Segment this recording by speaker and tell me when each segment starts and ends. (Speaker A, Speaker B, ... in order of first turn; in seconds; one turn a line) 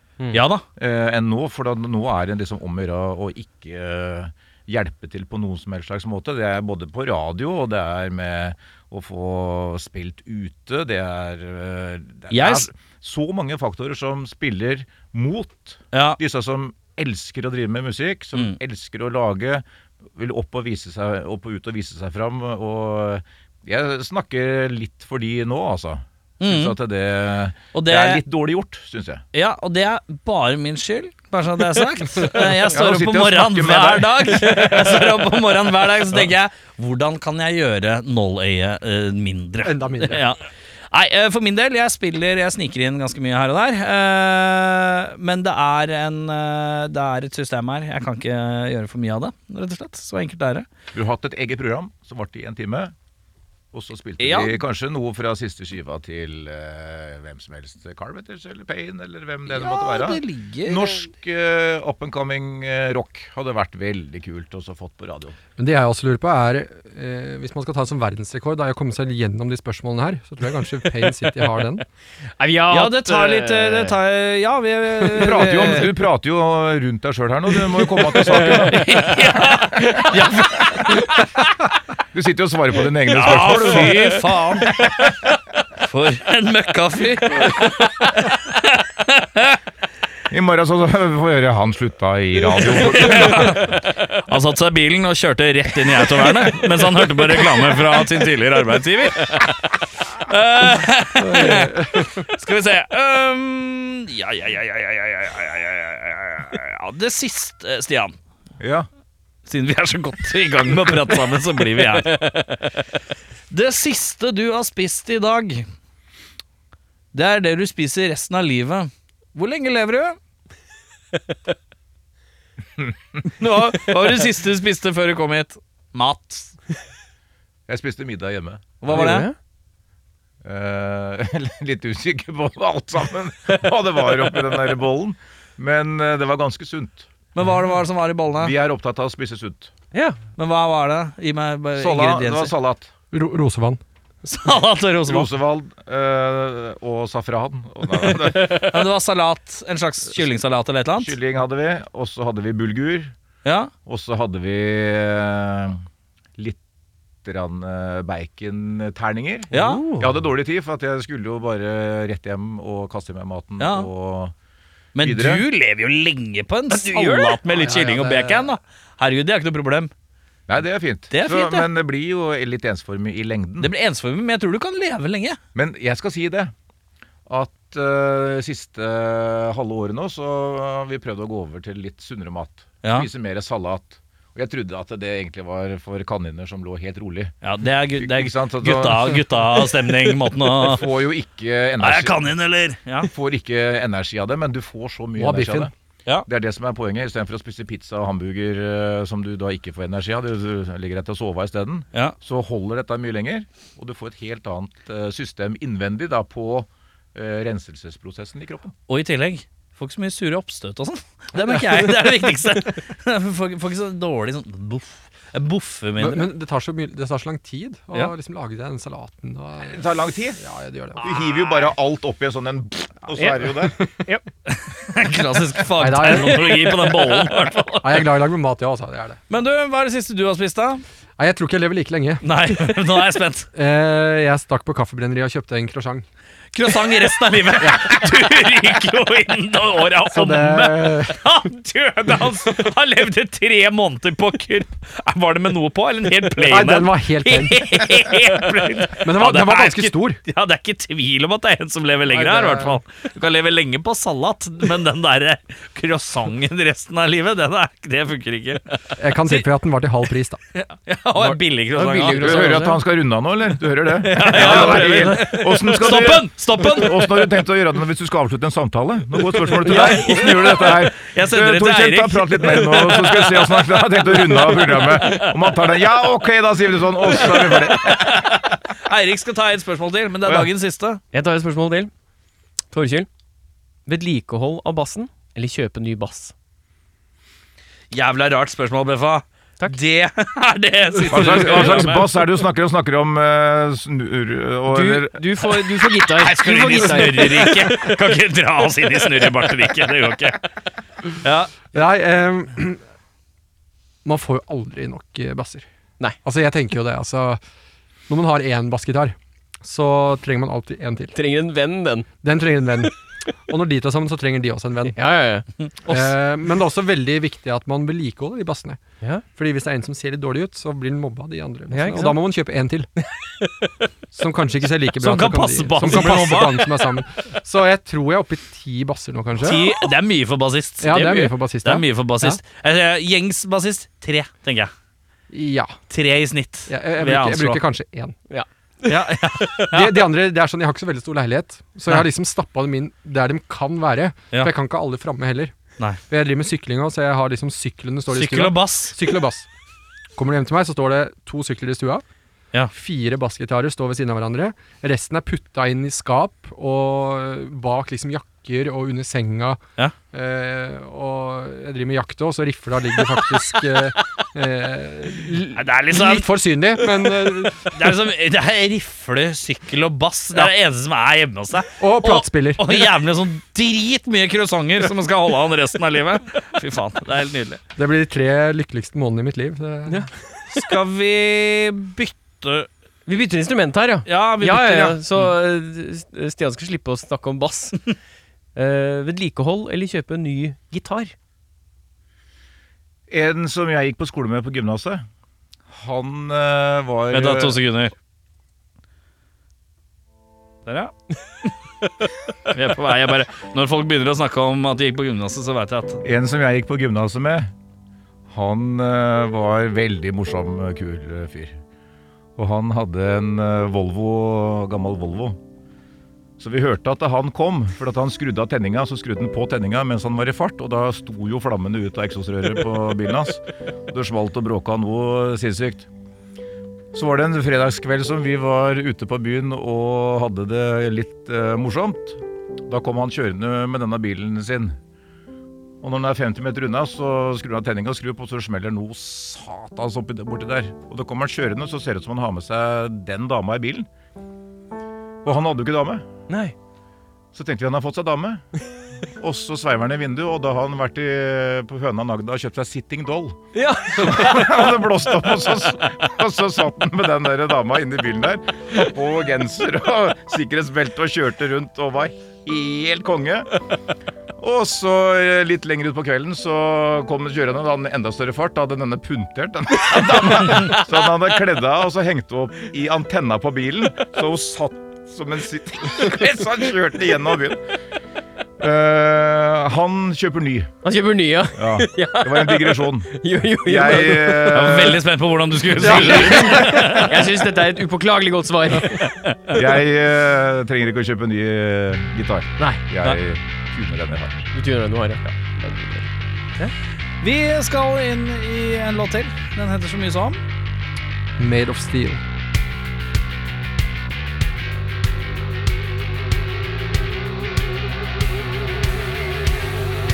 Speaker A: 0.3-0.6
Speaker B: 0.8-29.2
Speaker A: 12.3-12.7
Speaker A: 15.9-16.2
Speaker A: 26.4-26.8
Speaker A: 27.7-28.2
Speaker A: 29.3-50.7
Speaker B: 32.6-34.7
Speaker C: 39.6-40.2
Speaker B: 50.9-52.9
Speaker B: 53.7-65.3
Speaker A: 54.2-54.6
Speaker A: 59.5-61.0
Speaker C: 65.6-71.8
Speaker D: 72.4-74.0
Speaker A: 72.7-75.9
Speaker B: 75.1-80.8
Speaker D: 75.2-75.7
Speaker A: 78.1-81.4
Speaker D: 78.3-79.1
Speaker D: 80.0-81.0
Speaker B: 82.1-85.1
Speaker A: 83.1-85.3
Speaker A: 85.8-89.6
Speaker B: 90.3-93.7
Speaker A: 92.5-108.1
Speaker C: 101.2-102.2
Speaker B: 108.6-108.9
Speaker A: 109.5-112.6
Speaker A: 113.5-115.7
Speaker A: 117.1-120.2
Speaker A: 123.3-126.5
Speaker B: 127.7-129.0
Speaker A: 128.8-129.3
Speaker D: 128.9-129.3
Speaker B: 130.4-137.1
Speaker A: 137.3-138.5
Speaker B: 138.4-139.7
Speaker D: 139.9-140.2
Speaker A: 140.4-142.5
Speaker B: 141.8-142.9
Speaker C: 143.1-143.8
Speaker A: 144.2-145.3
Speaker B: 145.0-148.7
Speaker A: 148.1-151.1
Speaker B: 151.0-153.1
Speaker A: 153.4-153.7
Speaker B: 153.8-155.8
Speaker B: 157.2-164.3
Speaker A: 159.5-159.9
Speaker D: 159.5-160.1
Speaker A: 163.6-163.9
Speaker A: 164.9-169.9
Speaker B: 165.0-165.4
Speaker D: 166.7-167.7
Speaker C: 167.5-168.4
Speaker B: 170.5-173.7
Speaker A: 171.1-171.7
Speaker A: 173.6-175.4
Speaker B: 175.5-176.5
Speaker B: 177.3-187.3
Speaker A: 182.8-183.1
Speaker A: 187.4-190.9
Speaker B: 188.0-189.4
Speaker B: 190.4-192.3
Speaker A: 191.8-193.1
Speaker B: 193.0-195.7
Speaker C: 195.2-195.7
Speaker B: 196.3-208.7
Speaker A: 208.9-216.3
Speaker C: 216.0-219.8
Speaker B: 219.7-220.4
Speaker C: 220.4-221.0
Speaker B: 221.0-223.7
Speaker A: 221.1-221.6
Speaker D: 223.1-224.2
Speaker A: 224.5-228.1
Speaker C: 225.8-226.9
Speaker C: 227.8-229.2
Speaker A: 229.3-230.8
Speaker C: 231.2-232.8
Speaker A: 232.2-233.5
Speaker C: 233.5-236.0
Speaker A: 236.5-259.4
Speaker C: 237.6-238.0
Speaker C: 240.1-241.2
Speaker C: 246.4-247.8
Speaker C: 249.0-250.2
Speaker C: 252.1-252.8
Speaker C: 259.0-260.4
Speaker A: 260.5-262.6
Speaker D: 261.7-262.8
Speaker B: 262.1-278.3
Speaker A: 264.0-267.3
Speaker A: 269.3-275.7
Speaker D: 269.6-270.3
Speaker A: 277.0-281.0
Speaker B: 280.2-280.5
Speaker D: 281.1-281.9
Speaker D: 282.7-283.1
Speaker D: 283.9-286.3
Speaker A: 287.9-292.2
Speaker B: 291.1-295.2
Speaker D: 294.7-298.0
Speaker A: 295.4-300.4
Speaker A: 301.0-301.5
Speaker C: 301.7-302.8
Speaker C: 304.0-305.7
Speaker C: 306.2-307.4
Speaker C: 308.1-311.1
Speaker D: 311.1-312.1
Speaker C: 312.2-312.9
Speaker C: 313.5-315.0
Speaker D: 314.9-315.5
Speaker C: 315.9-318.8
Speaker C: 319.3-322.9
Speaker D: 321.7-322.2
Speaker D: 323.4-323.7
Speaker C: 324.1-329.7
Speaker A: 325.0-326.8
Speaker A: 329.4-334.7
Speaker C: 330.8-332.4
Speaker C: 335.3-335.8
Speaker A: 335.9-337.6
Speaker C: 336.7-338.1
Speaker D: 338.3-338.9
Speaker A: 338.8-340.0
Speaker C: 339.6-345.5
Speaker C: 346.1-349.5
Speaker A: 348.1-348.9
Speaker C: 350.1-352.0
Speaker C: 352.7-359.6
Speaker C: 360.1-368.0
Speaker A: 365.6-366.3
Speaker A: 366.8-377.6
Speaker C: 371.8-372.8
Speaker C: 377.8-380.1
Speaker A: 380.5-382.7
Speaker D: 383.1-387.9
Speaker A: 384.1-385.3
Speaker D: 388.5-391.1
Speaker B: 393.1-395.0
Speaker B: 395.7-397.6
Speaker A: 397.1-397.9
Speaker A: 400.6-401.5
Speaker A: 402.4-406.0
Speaker B: 406.0-407.5
Speaker B: 408.3-411.6
Speaker B: 412.4-415.4
Speaker B: 416.4-425.9
Speaker B: 426.9-434.8
Speaker B: 435.8-443.9
Speaker B: 445.2-446.1
Speaker D: 446.3-446.5
Speaker B: 447.3-448.4
Speaker B: 449.1-463.6
Speaker D: 453.5-454.7
Speaker B: 464.4-477.6
Speaker B: 478.6-480.7
Speaker D: 480.8-485.0
Speaker B: 481.6-485.0
Speaker A: 484.4-487.5
Speaker B: 485.8-487.0
Speaker C: 485.9-486.7
Speaker D: 485.9-489.6
Speaker A: 488.9-489.3
Speaker B: 489.5-494.4
Speaker D: 492.6-493.2
Speaker D: 494.5-496.7
Speaker A: 497.2-500.4
Speaker C: 501.4-502.2